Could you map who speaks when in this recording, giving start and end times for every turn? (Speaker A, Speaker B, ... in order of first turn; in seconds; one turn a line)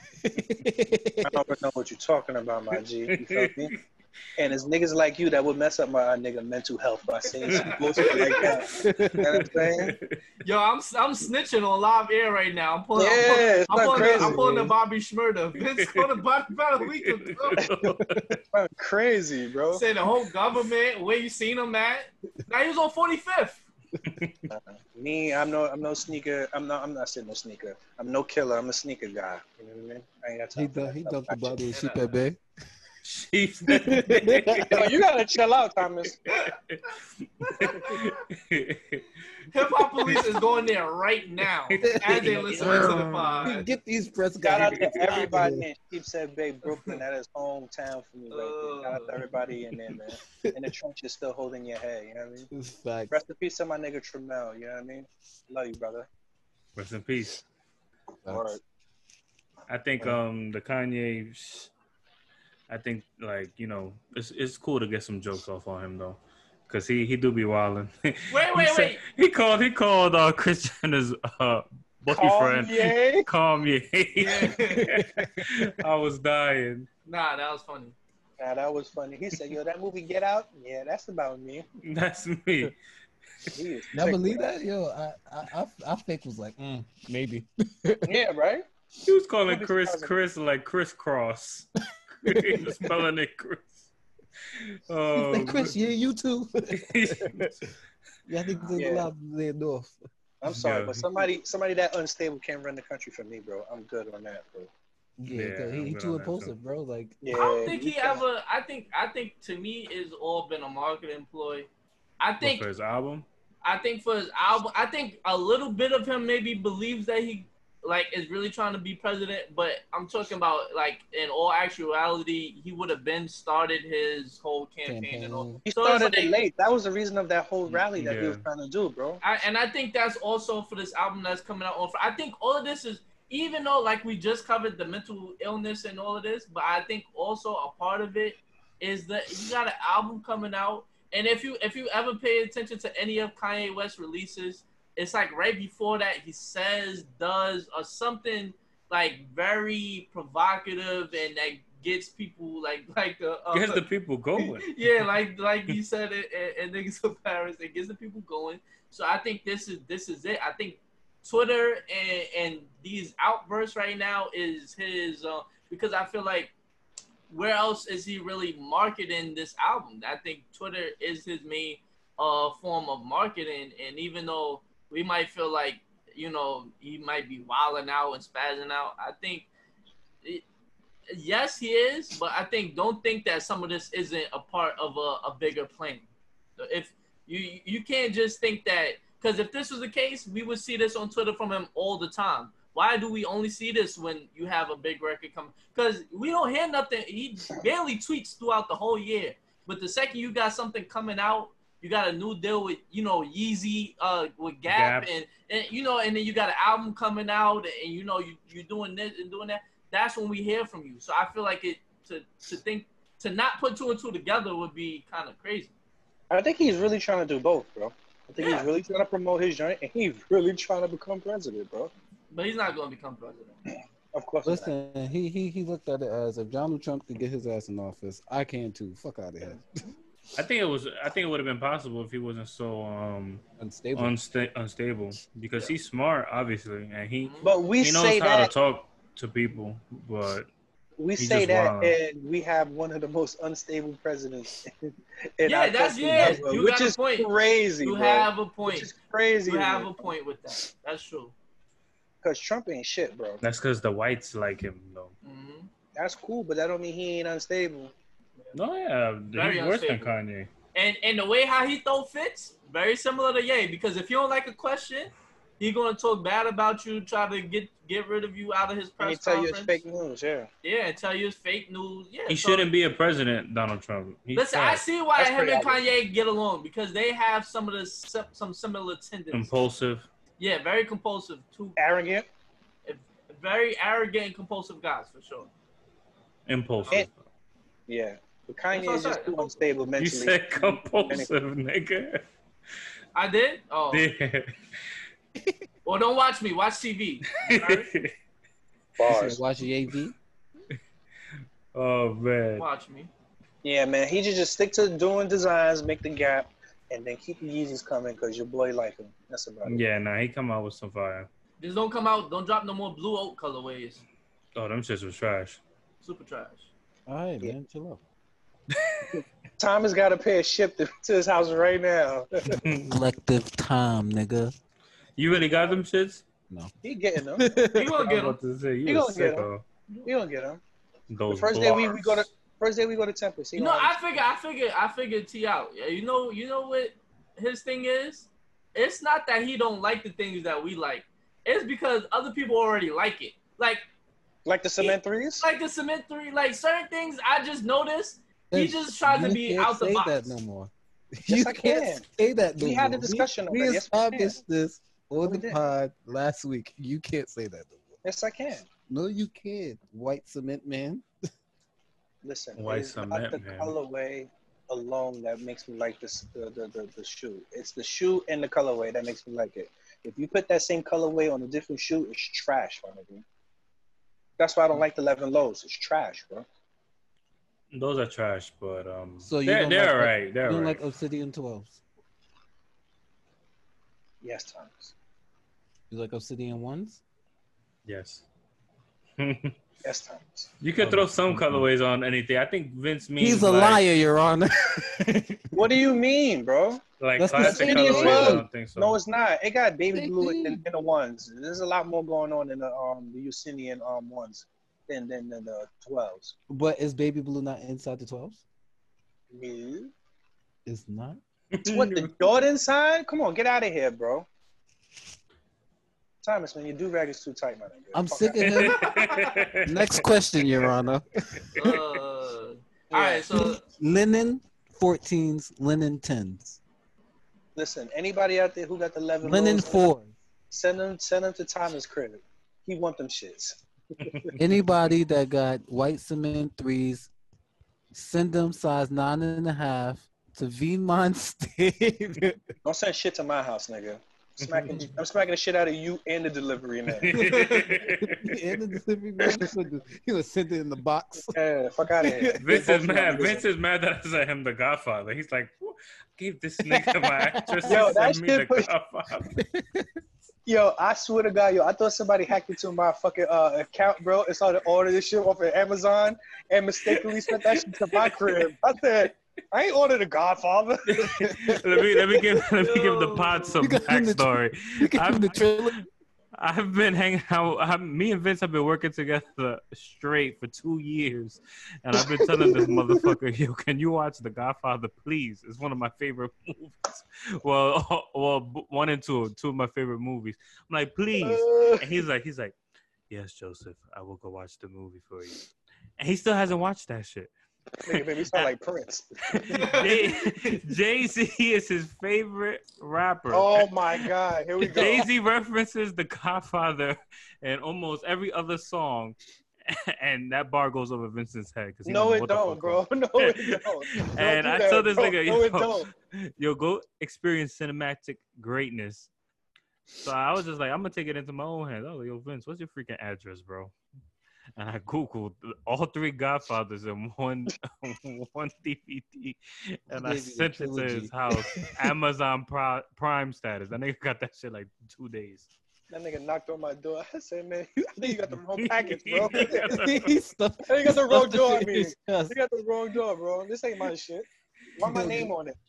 Speaker A: 0.2-1.5
Speaker B: 1.2-3.7
Speaker C: 3.1-3.8
Speaker B: 4.4-9.9
Speaker C: 7.5-8.5
Speaker D: 7.6-8.6
Speaker A: 8.7-9.5
Speaker C: 9.3-10.2
Speaker D: 10.4-17.6
Speaker B: 12.9-14.5
Speaker A: 13.9-14.7
Speaker C: 15.6-16.2
Speaker C: 16.8-18.4
Speaker B: 17.6-18.0
Speaker B: 18.5-19.8
Speaker D: 19.7-23.6
Speaker C: 24.0-24.4
Speaker B: 24.5-31.6
Speaker A: 30.6-32.4
Speaker D: 31.7-32.1
Speaker C: 33.0-34.9
Speaker B: 33.7-36.2
Speaker A: 34.0-34.9
Speaker D: 36.3-36.6
Speaker C: 36.3-36.9
Speaker D: 37.4-38.2
Speaker C: 37.5-39.0
Speaker D: 39.5-43.7
Speaker C: 40.0-40.4
Speaker C: 41.6-43.1
Speaker A: 41.8-45.6
Speaker B: 44.4-52.5
Speaker D: 48.3-49.1
Speaker A: 50.4-50.7
Speaker A: 52.5-53.1
Speaker B: 53.1-56.1
Speaker C: 56.8-57.4
Speaker A: 58.2-58.6
Speaker B: 58.3-58.6
Speaker C: 59.7-61.7
Speaker C: 62.7-76.9
Speaker D: 68.3-69.0
Speaker B: 72.1-73.3
Speaker D: 74.2-74.9
Speaker A: 74.9-75.5
Speaker D: 77.0-78.0
Speaker B: 78.4-81.7
Speaker C: 81.8-82.7
Speaker B: 83.5-84.5
Speaker A: 83.9-88.1
Speaker B: 88.0-88.6
Speaker C: 89.0-93.9
Speaker B: 89.5-90.1
Speaker A: 92.2-93.0
Speaker C: 94.5-95.7
Speaker A: 95.1-97.5
Speaker C: 96.7-97.6
Speaker A: 98.3-100.0
Speaker B: 98.7-99.1
Speaker B: 100.4-104.7
Speaker C: 100.5-101.0
Speaker A: 105.2-107.3
Speaker C: 105.3-106.5
Speaker B: 107.2-108.2
Speaker D: 107.3-111.7
Speaker D: 112.2-112.7
Speaker C: 112.4-113.3
Speaker D: 113.6-126.4
Speaker A: 124.8-125.6
Speaker B: 125.7-129.2
Speaker C: 128.0-128.4
Speaker D: 129.2-153.8
Speaker C: 153.5-154.8
Speaker D: 154.4-166.5
Speaker D: 167.3-179.5
Speaker D: 181.1-215.7
Speaker C: 204.7-205.1
Speaker B: 216.3-221.9
Speaker D: 218.4-218.7
Speaker D: 222.3-223.6
Speaker B: 224.1-224.7
Speaker A: 224.4-229.8
Speaker C: 230.3-233.4
Speaker A: 233.6-234.1
Speaker C: 233.9-240.5
Speaker D: 237.2-237.5
Speaker B: 237.4-238.5
Speaker B: 241.0-250.1
Speaker C: 241.2-241.9
Speaker D: 245.4-247.3
Speaker D: 247.8-248.9
Speaker D: 249.4-251.3
Speaker B: 252.2-253.4
Speaker C: 253.4-255.1
Speaker D: 255.2-255.7
Speaker B: 255.9-257.9
Speaker C: 258.5-260.5
Speaker D: 259.3-260.1
Speaker D: 260.7-269.8
Speaker B: 269.0-270.5
Speaker D: 270.6-272.7
Speaker C: 272.3-274.8
Speaker D: 274.3-279.5
Speaker B: 275.1-275.8
Speaker C: 279.3-280.1
Speaker D: 280.4-281.8
Speaker B: 281.8-282.3
Speaker D: 282.8-285.5
Speaker C: 286.5-287.2
Speaker B: 287.9-291.3
Speaker D: 288.7-289.6
Speaker C: 290.0-292.2
Speaker D: 293.1-294.1
Speaker C: 293.9-294.5
Speaker D: 295.8-297.9
Speaker C: 297.5-298.1
Speaker B: 299.0-299.4
Speaker A: 299.0-300.1
Speaker C: 301.7-302.6
Speaker D: 302.6-303.1
Speaker B: 303.6-309.8
Speaker C: 309.6-311.3
Speaker D: 311.6-314.0
Speaker C: 314.5-315.6
Speaker D: 316.0-316.7
Speaker A: 317.1-318.0
Speaker B: 319.6-322.6
Speaker C: 322.5-323.0
Speaker A: 322.9-324.5
Speaker C: 325.2-326.2
Speaker B: 326.8-327.4
Speaker A: 327.3-328.0
Speaker D: 327.7-328.4
Speaker C: 328.0-329.6
Speaker B: 328.8-329.5
Speaker B: 330.0-330.6
Speaker C: 331.1-332.3
Speaker B: 331.3-334.2
Speaker D: 333.6-343.8
Speaker B: 344.4-345.5
Speaker D: 344.8-350.4
Speaker A: 348.5-358.0
Speaker B: 351.3-352.0
Speaker B: 352.6-354.4
Speaker B: 355.2-355.6
Speaker B: 358.0-358.6
Speaker A: 358.9-361.1
Speaker B: 362.2-373.2
Speaker C: 362.6-363.7
Speaker B: 374.4-376.5
Speaker C: 377.7-380.8
Speaker A: 379.2-381.8
Speaker B: 384.2-384.9
Speaker A: 385.9-387.0
Speaker C: 387.9-388.2
Speaker C: 389.2-389.5
Speaker B: 389.8-390.5
Speaker C: 390.6-393.8
Speaker A: 390.8-391.6
Speaker A: 393.2-395.6
Speaker B: 395.5-396.8
Speaker C: 397.0-399.0
Speaker A: 397.2-398.5
Speaker B: 397.4-406.3
Speaker A: 399.9-400.6
Speaker A: 406.5-408.4
Speaker B: 409.3-409.9
Speaker A: 410.6-411.2
Speaker C: 411.5-412.1
Speaker B: 411.6-414.3
Speaker B: 416.2-418.8
Speaker A: 417.9-418.8
Speaker C: 418.4-420.0
Speaker D: 418.7-419.4
Speaker A: 419.6-421.5
Speaker D: 421.5-423.6
Speaker B: 422.9-423.3
Speaker A: 423.3-426.6
Speaker B: 427.6-429.9
Speaker A: 429.2-430.1
Speaker B: 430.5-434.3
Speaker A: 434.4-437.1
Speaker A: 437.9-442.4
Speaker B: 442.6-447.2
Speaker C: 444.4-444.8
Speaker C: 446.9-448.6
Speaker D: 447.1-447.7
Speaker A: 448.0-451.4
Speaker B: 451.3-453.4
Speaker A: 452.0-453.4
Speaker C: 452.4-459.4
Speaker A: 456.7-458.0
Speaker B: 457.7-458.7
Speaker A: 459.3-459.9
Speaker B: 460.4-471.3
Speaker C: 467.3-468.5
Speaker C: 470.9-475.8
Speaker A: 471.0-471.7
Speaker D: 472.5-473.7
Speaker A: 473.6-475.8
Speaker C: 476.4-492.5
Speaker A: 481.9-483.1
Speaker B: 491.2-491.9
Speaker C: 493.1-495.4
Speaker C: 496.0-497.3
Speaker B: 497.8-499.8
Speaker C: 497.9-498.5
Speaker C: 499.3-504.1
Speaker D: 499.5-500.5
Speaker B: 503.3-505.1
Speaker C: 504.6-509.2
Speaker C: 509.7-519.1
Speaker B: 511.9-515.9
Speaker C: 519.9-523.7
Speaker C: 524.5-535.5
Speaker A: 529.9-531.9
Speaker B: 535.9-539.8
Speaker C: 538.6-540.2
Speaker A: 539.4-542.4
Speaker B: 540.7-545.6
Speaker A: 544.8-545.3